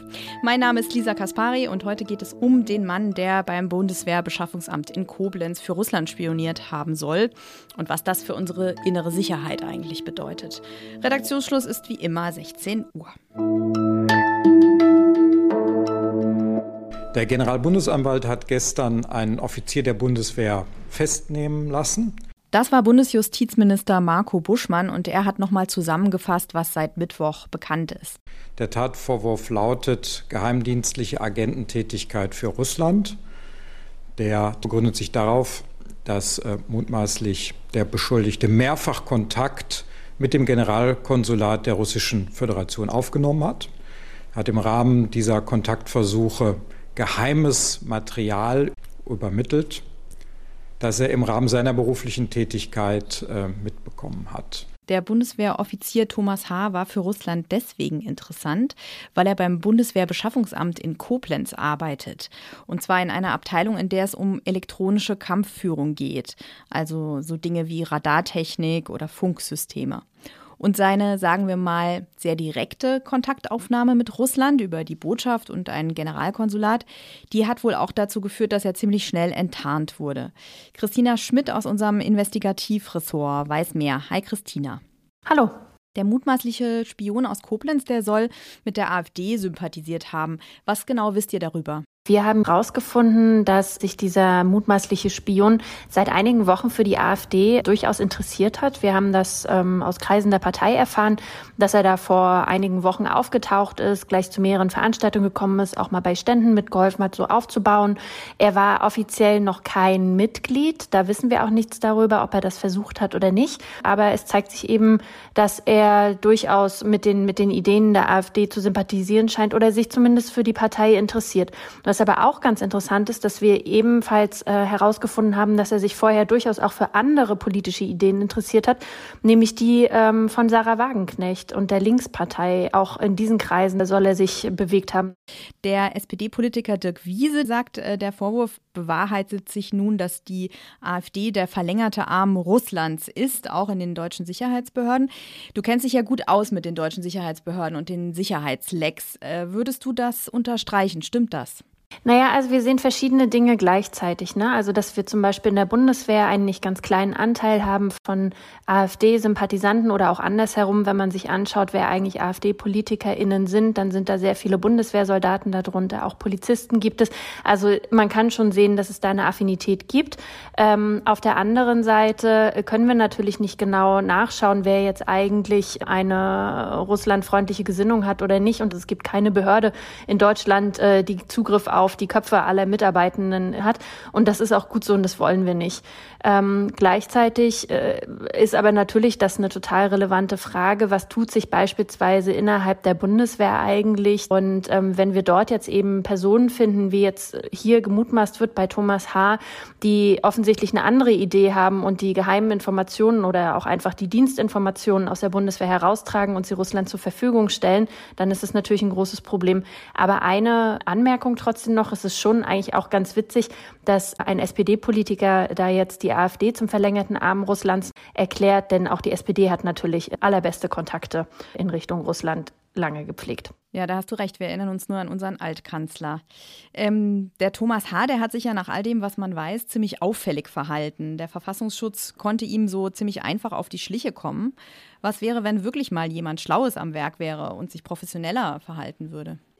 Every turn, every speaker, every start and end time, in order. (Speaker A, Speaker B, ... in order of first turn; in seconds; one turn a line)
Speaker A: 0.4-13.1
Speaker B: 17.1-22.1
Speaker A: 22.5-28.2
Speaker B: 28.6-33.2
Speaker B: 34.2-43.7
Speaker B: 44.3-49.8
Speaker B: 50.8-54.6
Speaker A: 54.9-70.0
Speaker A: 70.6-84.8
Speaker C: 85.3-85.5
Speaker A: 85.9-91.8
Speaker C: 92.1-135.1
Speaker A: 135.6-151.6
Speaker C: 152.0-223.5
Speaker A: 223.7-226.2
Speaker A: 226.7-239.4